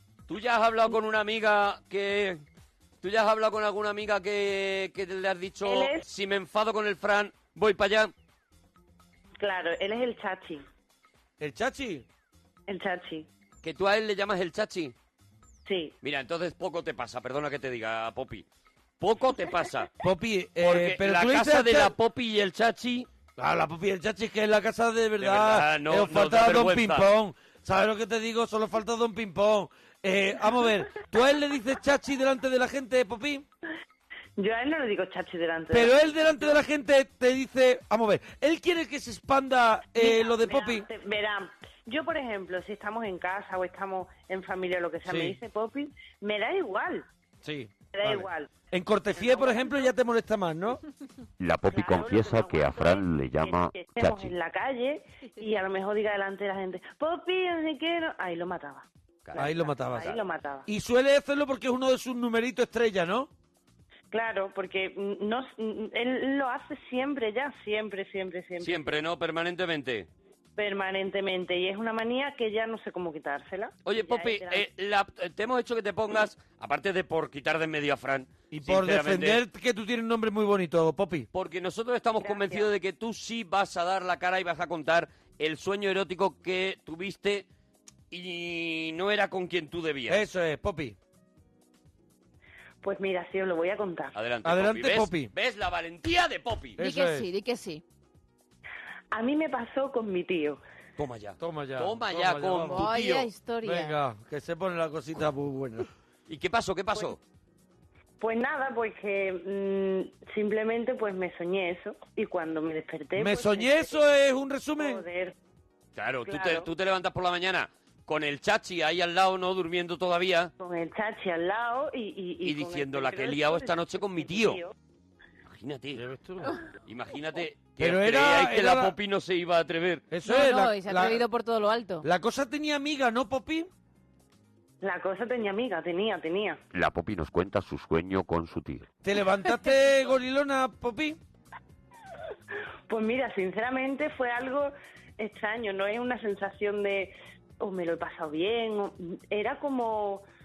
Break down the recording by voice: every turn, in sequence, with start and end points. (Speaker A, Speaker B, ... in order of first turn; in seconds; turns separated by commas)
Speaker A: 0.3-2.4, Speaker A: 3.0-8.1, Speaker B: 5.6-6.0, Speaker B: 9.4-10.6, Speaker C: 11.4-12.1, Speaker B: 12.7-13.3, Speaker A: 13.6-14.9, Speaker B: 15.7-15.9, Speaker A: 16.0-18.4, Speaker A: 19.0-19.9, Speaker C: 20.0-21.9, Speaker A: 20.6-23.1, Speaker C: 23.4-33.5, Speaker A: 25.2-27.1, Speaker B: 34.4-36.6, Speaker C: 35.7-40.9, Speaker B: 40.0-47.1, Speaker C: 45.1-45.4, Speaker C: 47.4-50.8, Speaker B: 47.9-48.5, Speaker B: 49.2-49.9, Speaker D: 51.4-54.3, Speaker B: 51.7-60.7, Speaker A: 59.3-59.5, Speaker C: 59.4-63.3, Speaker B: 64.1-68.9, Speaker A: 68.6-70.1, Speaker B: 70.6-74.7, Speaker A: 73.8-79.4, Speaker C: 78.5-81.3, Speaker A: 81.3-87.5, Speaker B: 82.2-82.7, Speaker A: 88.1-90.2, Speaker C: 90.1-91.0, Speaker B: 92.8-94.2, Speaker A: 94.2-96.8, Speaker C: 94.5-95.3, Speaker C: 96.8-97.3, Speaker E: 96.8-97.8, Speaker B: 99.1-100.6, Speaker A: 101.0-103.3, Speaker C: 101.4-102.9, Speaker E: 102.7-104.0, Speaker C: 103.6-105.9, Speaker A: 106.3-107.2, Speaker B: 108.2-114.0, Speaker C: 113.2-115.0, Speaker B: 114.8-115.3, Speaker A: 116.0-120.5, Speaker B: 116.2-116.7, Speaker B: 120.6-124.7, Speaker A: 122.4-124.6, Speaker A: 125.5-126.0, Speaker C: 126.0-126.6, Speaker A: 126.8-130.1, Speaker C: 127.8-128.9, Speaker C: 130.1-131.2, Speaker E: 130.2-132.1, Speaker C: 132.0-133.7, Speaker B: 134.8-136.6, Speaker D: 136.7-138.9, Speaker C: 139.0-141.2, Speaker B: 142.9-150.2